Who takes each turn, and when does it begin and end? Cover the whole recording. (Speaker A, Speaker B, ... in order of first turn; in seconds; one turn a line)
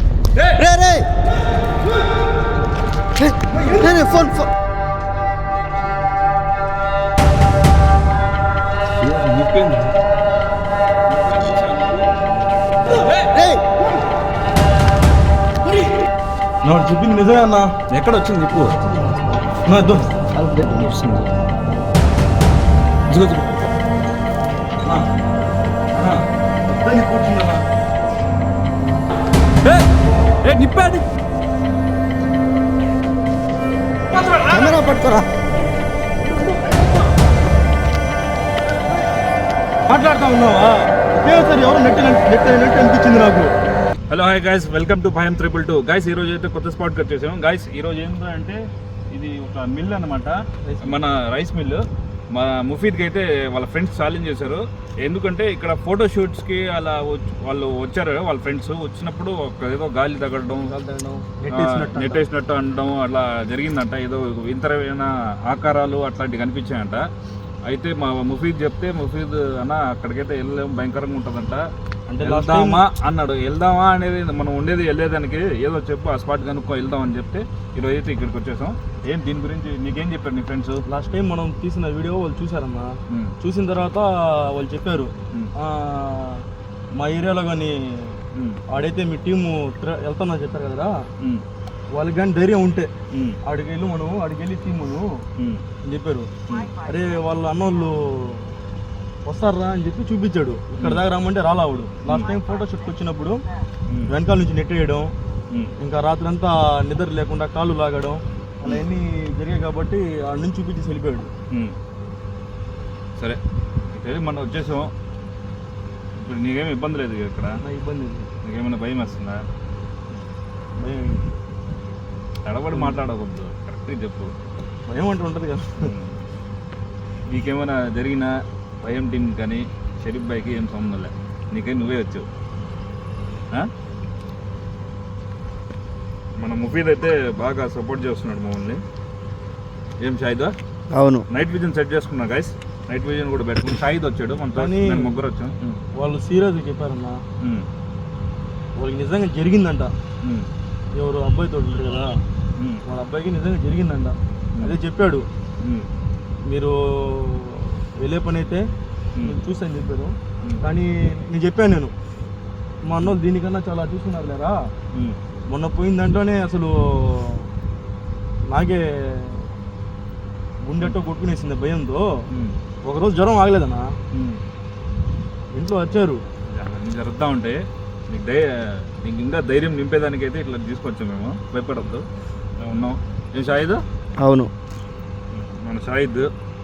Speaker A: 0.5-1.1
Speaker A: 3.2-4.5
Speaker B: 9.0-10.0
Speaker B: 11.1-12.2
Speaker A: 13.2-13.8
Speaker C: 16.6-17.7
Speaker B: 17.9-18.8
Speaker A: 18.6-19.6
Speaker C: 19.7-20.1
Speaker A: 20.3-21.0
Speaker B: 20.7-21.4
Speaker B: 23.1-23.6
Speaker C: 25.9-27.6
Speaker B: 29.6-29.9
Speaker B: 30.4-31.1
Speaker B: 34.1-34.8
Speaker A: 34.5-35.3
Speaker B: 36.5-36.8
Speaker C: 39.9-43.5
Speaker B: 44.1-60.7
Speaker C: 50.6-51.0
Speaker C: 60.7-62.3
Speaker B: 61.5-67.0
Speaker B: 67.7-71.7
Speaker C: 72.1-72.8
Speaker B: 72.2-80.8
Speaker C: 80.9-88.2
Speaker B: 88.3-88.6
Speaker C: 88.7-91.0
Speaker C: 91.9-92.9
Speaker B: 93.1-93.4
Speaker C: 93.4-95.2
Speaker B: 95.4-95.6
Speaker C: 95.8-98.5
Speaker C: 99.2-103.4
Speaker B: 100.8-101.0
Speaker C: 104.1-105.1
Speaker C: 105.8-111.3
Speaker B: 111.5-111.8
Speaker B: 113.9-114.9
Speaker B: 116.2-117.6
Speaker C: 117.6-118.3
Speaker B: 118.4-119.5
Speaker C: 120.8-121.3
Speaker B: 122.5-124.3
Speaker C: 122.7-123.0
Speaker C: 124.9-125.9
Speaker B: 125.8-126.2
Speaker B: 127.3-132.3
Speaker B: 136.4-138.8
Speaker B: 140.0-140.6
Speaker A: 140.9-141.3
Speaker B: 141.3-145.8
Speaker C: 144.6-145.1
Speaker C: 145.9-147.2
Speaker B: 147.4-147.7
Speaker C: 148.8-149.9
Speaker B: 150.2-150.5
Speaker C: 150.9-152.2
Speaker B: 152.6-152.8
Speaker C: 152.9-155.3
Speaker B: 155.6-155.9
Speaker C: 156.5-158.7
Speaker C: 159.2-161.9
Speaker C: 162.8-164.6
Speaker C: 165.5-167.5
Speaker C: 168.5-169.5
Speaker C: 170.7-172.1
Speaker B: 172.3-172.6
Speaker C: 172.8-173.9
Speaker B: 174.1-174.4
Speaker C: 175.5-176.2
Speaker B: 176.5-182.1
Speaker B: 182.6-183.8
Speaker A: 184.2-184.5
Speaker B: 185.3-186.3